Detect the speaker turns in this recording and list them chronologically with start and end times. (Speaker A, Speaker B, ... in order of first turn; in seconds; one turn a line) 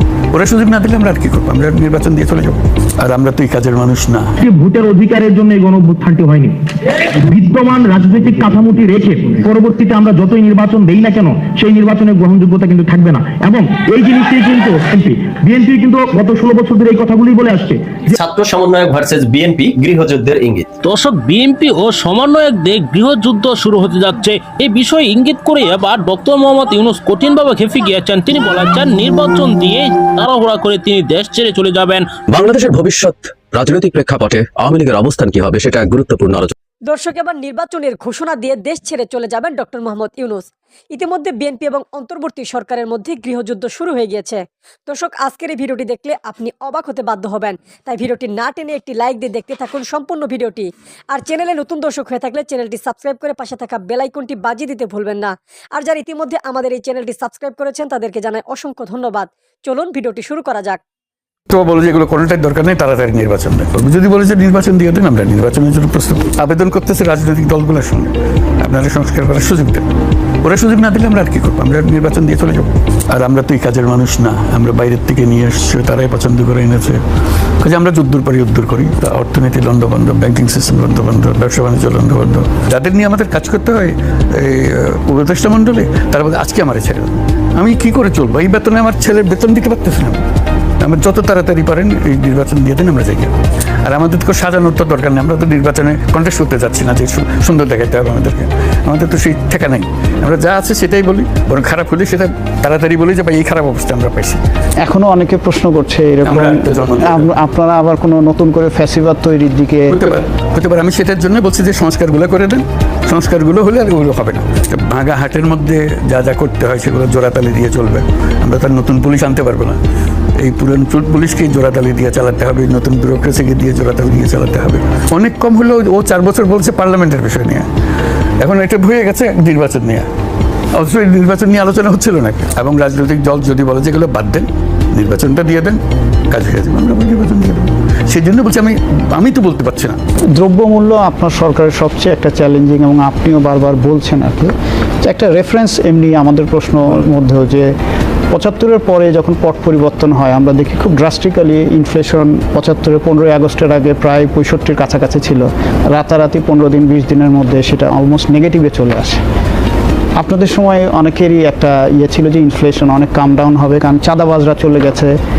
Speaker A: 0.3-4.3
Speaker B: 4.4-6.5
Speaker B: 7.2-18.1
Speaker C: 18.1-20.7
Speaker D: 20.8-32.1
Speaker E: 32.3-36.5
Speaker F: 36.9-60.8
Speaker A: 61.5-69.8
Speaker A: 70.4-77.0
Speaker A: 77.6-90.2
Speaker A: 90.8-104.4
Speaker G: 104.8-110.0
Speaker A: 106.2-107.3
Speaker A: 109.9-119.8
Speaker A: 120.4-127.7
Speaker A: 128.4-130.1
Speaker A: 130.7-140.0
Speaker G: 140.4-144.5
Speaker G: 145.0-147.7
Speaker G: 148.3-159.2
Speaker G: 160.2-165.1